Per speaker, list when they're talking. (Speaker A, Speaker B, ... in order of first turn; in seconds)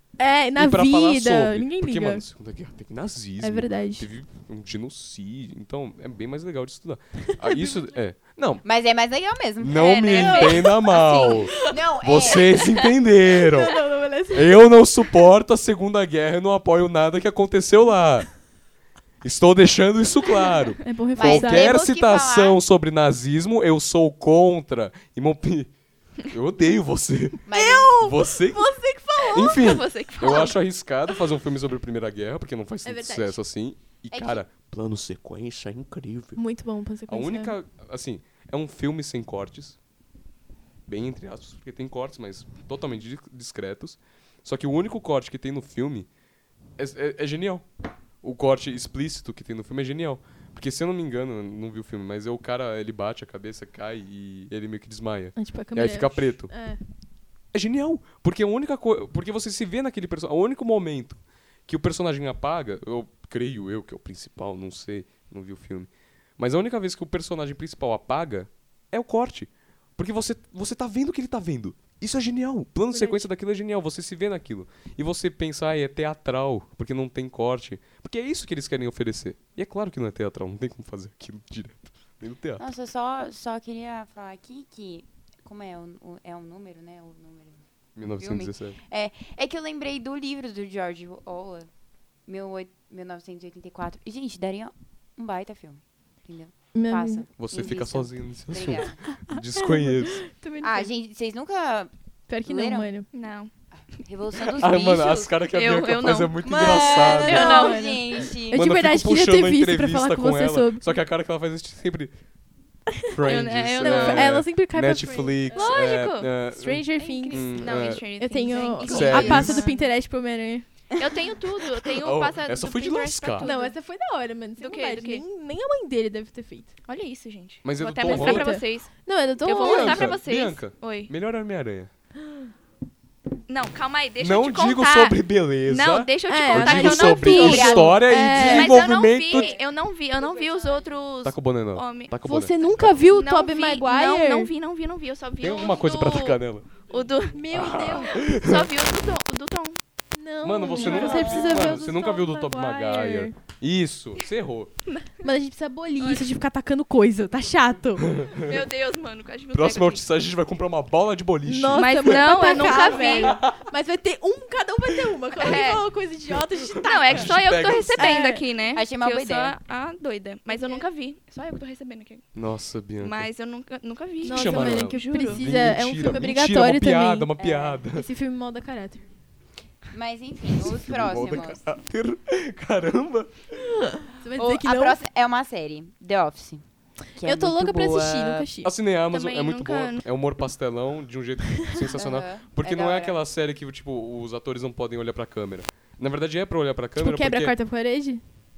Speaker A: 0.2-2.2, 3.4-4.1, 7.3-7.9, 10.2-11.7, 13.3-14.8, 20.8-21.8, 27.5-29.7, 32.8-33.4, 36.4-37.5, 55.4-56.8, 72.9-73.3, 96.7-97.2, 99.3-100.9, 102.3-103.1, 107.1-110.9, 112.9-113.2, 113.8-115.7, 116.5-117.7, 118.2-120.7, 123.4-126.7, 128.1-130.1, 136.3-138.7, 142.2-144.5, 147.3-148.2, 150.1-153.3, 155.2-158.2, 161.4-167.4, 167.9-168.4, 174.2-177.3, 177.9-179.0, 184.1-185.0, 187.2-188.7, 197.0-198.2
Speaker B: 0.6-8.6, 9.6-18.4, 19.2-25.7, 26.2-27.4, 27.9-36.4, 37.1-39.8, 40.9-46.1, 46.8-47.6, 48.2-56.5, 57.5-82.7, 88.0-88.8, 97.4-100.2, 104.3-107.5, 108.4-112.1, 113.1-118.1, 118.8-119.7, 122.0-123.5, 127.6-128.5, 129.6-131.9, 134.2-139.5, 141.2-142.5, 145.4-146.7, 147.5-148.7, 150.4-154.7, 158.0-158.6, 159.5-163.6, 166.7-168.2, 172.3-173.3, 174.2-178.1, 180.6-183.4, 188.6-197.5
Speaker C: 8.6-12.9, 21.1-22.6, 27.4-28.0, 34.1-34.4, 82.6-87.6, 88.2-91.7, 92.2-99.0, 100.6-101.9, 102.4-102.9, 103.8-105.4, 106.4-108.7, 117.0-117.8, 118.5-119.9, 137.2-141.0, 150.7-151.9, 168.7-169.5, 170.5-170.9, 177.4-177.9, 179.9-181.6, 184.3-188.5, 191.8-193.2
Speaker D: 29.4-30.6, 103.1-103.5, 105.5-108.2, 113.2-114.3, 115.5-116.3, 117.2-119.7, 121.0-123.7, 124.6-125.2, 126.8-131.1, 133.5-142.2, 142.8-149.8, 150.8-151.4, 156.0-156.3, 158.3-160.0, 161.7-163.3, 165.3-165.9, 166.8-172.2, 173.0-175.5, 189.1-190.0